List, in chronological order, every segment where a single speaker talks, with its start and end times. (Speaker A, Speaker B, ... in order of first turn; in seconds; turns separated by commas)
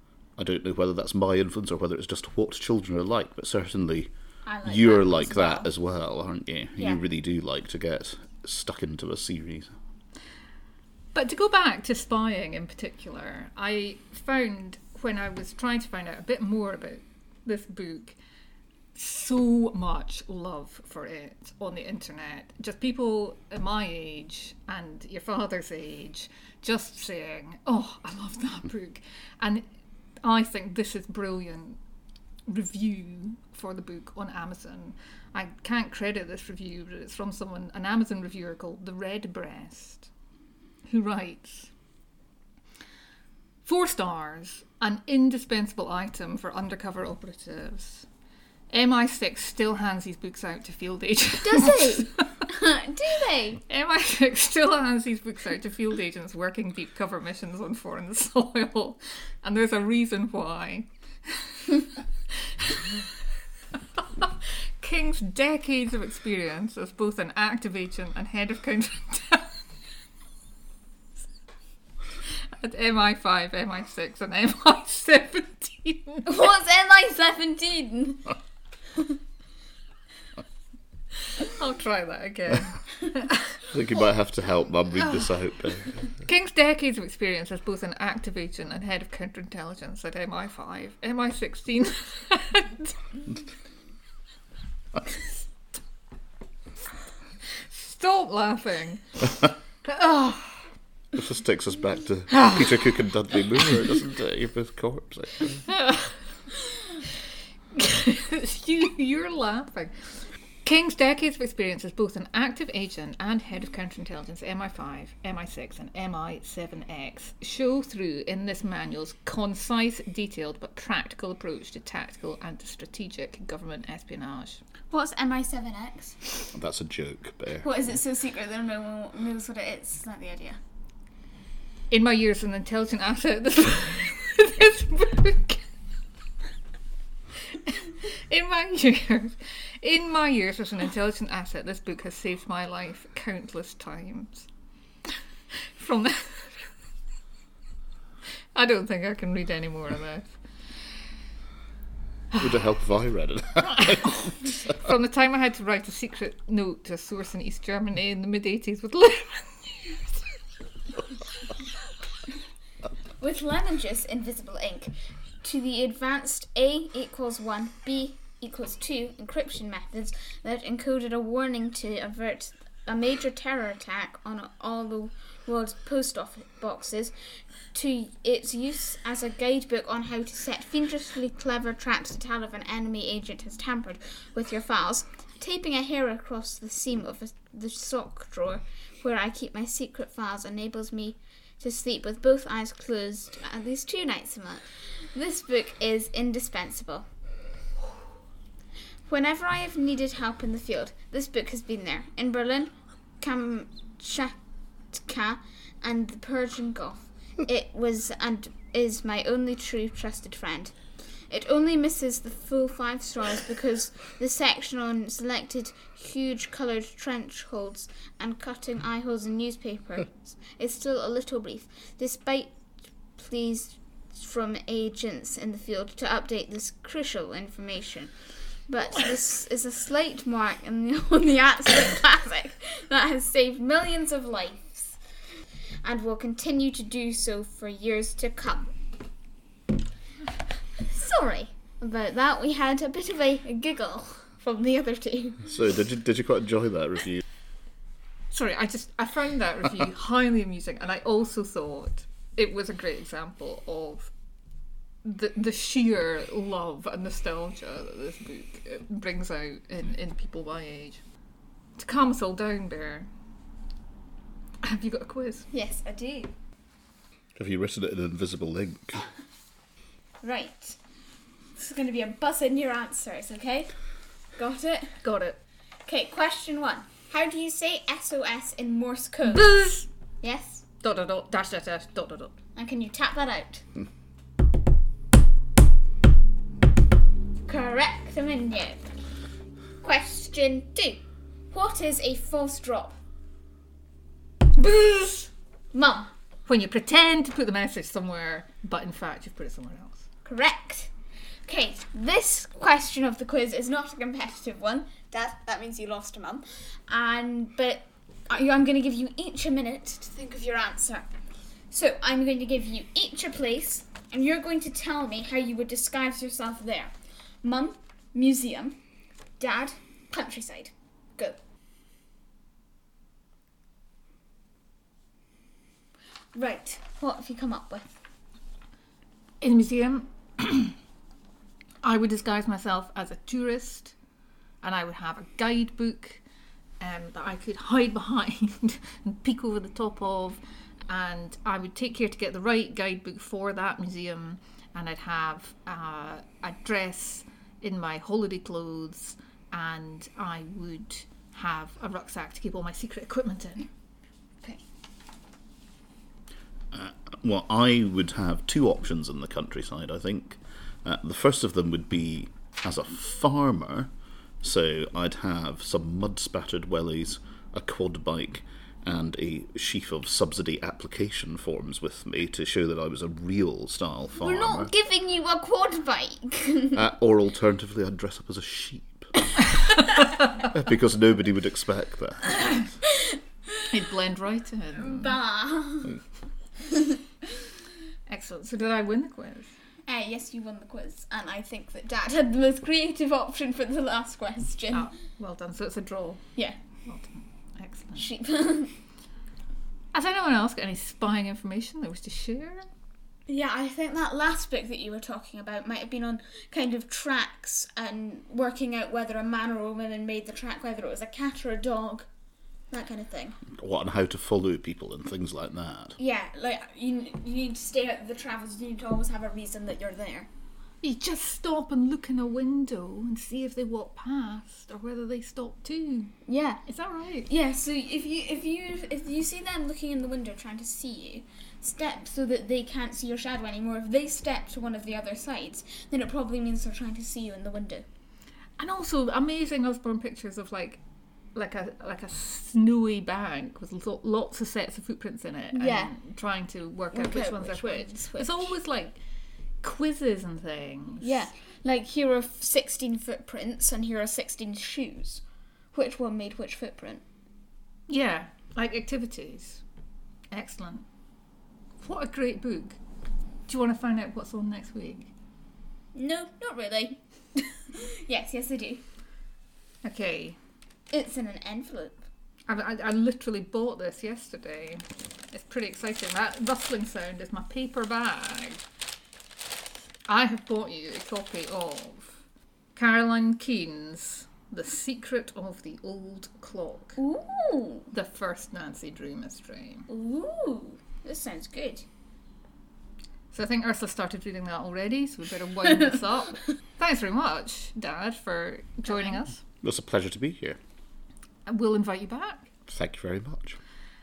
Speaker A: 0.4-4.1, Speaker B: 4.5-5.7, Speaker A: 4.7-9.8, Speaker B: 6.8-7.0, Speaker C: 11.1-18.2, Speaker C: 18.9-29.6, Speaker C: 30.2-31.8, Speaker C: 32.5-40.1, Speaker C: 40.9-41.7, Speaker C: 43.6-48.1, Speaker C: 48.7-52.5, Speaker B: 51.4-53.6, Speaker C: 53.7-63.1, Speaker C: 64.0-69.6, Speaker C: 72.3-76.3, Speaker B: 76.2-78.3, Speaker C: 81.3-83.6, Speaker A: 83.7-86.1, Speaker C: 86.2-93.0, Speaker C: 97.5-100.7, Speaker A: 101.1-105.7, Speaker C: 105.7-106.2, Speaker C: 107.8-124.6, Speaker B: 124.9-126.4, Speaker A: 126.5-127.7, Speaker B: 127.6-130.6, Speaker C: 131.9-135.7, Speaker C: 137.4-144.5, Speaker C: 145.6-146.7, Speaker C: 148.6-150.4, Speaker A: 152.4-154.5, Speaker C: 153.7-160.2, Speaker B: 163.2-177.1, Speaker B: 177.7-197.1, Speaker B: 199.1-204.4, Speaker B: 204.9-222.6, Speaker B: 223.2-228.2, Speaker B: 228.7-235.0, Speaker B: 235.8-238.7, Speaker B: 240.8-245.5, Speaker A: 245.5-247.2, Speaker C: 248.3-254.1, Speaker C: 255.0-261.0, Speaker C: 261.8-263.1, Speaker C: 264.6-265.5, Speaker B: 265.5-266.3, Speaker A: 267.4-269.1, Speaker B: 270.2-270.8, Speaker B: 271.6-273.7, Speaker B: 274.4-275.0, Speaker C: 275.0-275.4, Speaker B: 275.9-279.6, Speaker C: 279.3-279.9, Speaker B: 280.2-280.6, Speaker C: 280.8-282.4, Speaker B: 282.6-283.7, Speaker B: 287.5-288.9, Speaker B: 289.8-293.0, Speaker C: 294.6-295.3, Speaker B: 295.7-296.1, Speaker C: 296.5-300.1, Speaker B: 300.2-300.9, Speaker B: 301.4-311.1, Speaker B: 311.7-318.8, Speaker B: 319.4-321.4, Speaker B: 326.4-328.0, Speaker C: 329.4-330.8, Speaker C: 331.8-333.9, Speaker C: 334.6-336.2, Speaker C: 336.8-353.7, Speaker A: 356.7-363.9, Speaker A: 364.4-374.7, Speaker B: 374.2-376.8, Speaker A: 376.7-379.3, Speaker A: 380.4-382.6, Speaker C: 383.7-385.2, Speaker B: 384.8-386.0, Speaker B: 386.7-387.0, Speaker C: 388.1-389.6, Speaker B: 389.9-394.9, Speaker C: 394.7-398.1, Speaker B: 398.0-398.7, Speaker C: 399.9-402.7, Speaker B: 403.3-412.1, Speaker B: 412.7-413.4, Speaker A: 413.5-416.0, Speaker B: 416.0-420.3, Speaker C: 420.8-427.3, Speaker B: 426.3-426.6, Speaker B: 427.3-437.9, Speaker C: 438.6-440.8, Speaker C: 441.3-449.0, Speaker B: 445.5-445.9, Speaker B: 446.9-448.5, Speaker C: 449.6-451.2, Speaker B: 451.0-457.0, Speaker C: 457.9-459.6, Speaker C: 460.3-460.9, Speaker C: 461.8-462.8, Speaker C: 463.5-465.1, Speaker B: 465.9-468.8, Speaker C: 469.8-470.4, Speaker B: 470.9-472.0, Speaker C: 472.5-478.6, Speaker C: 480.1-482.2, Speaker C: 482.8-487.0, Speaker B: 487.0-487.9, Speaker C: 487.9-489.9, Speaker B: 489.9-491.9, Speaker C: 493.3-499.4, Speaker A: 499.6-500.6, Speaker C: 501.5-502.5, Speaker A: 502.7-503.6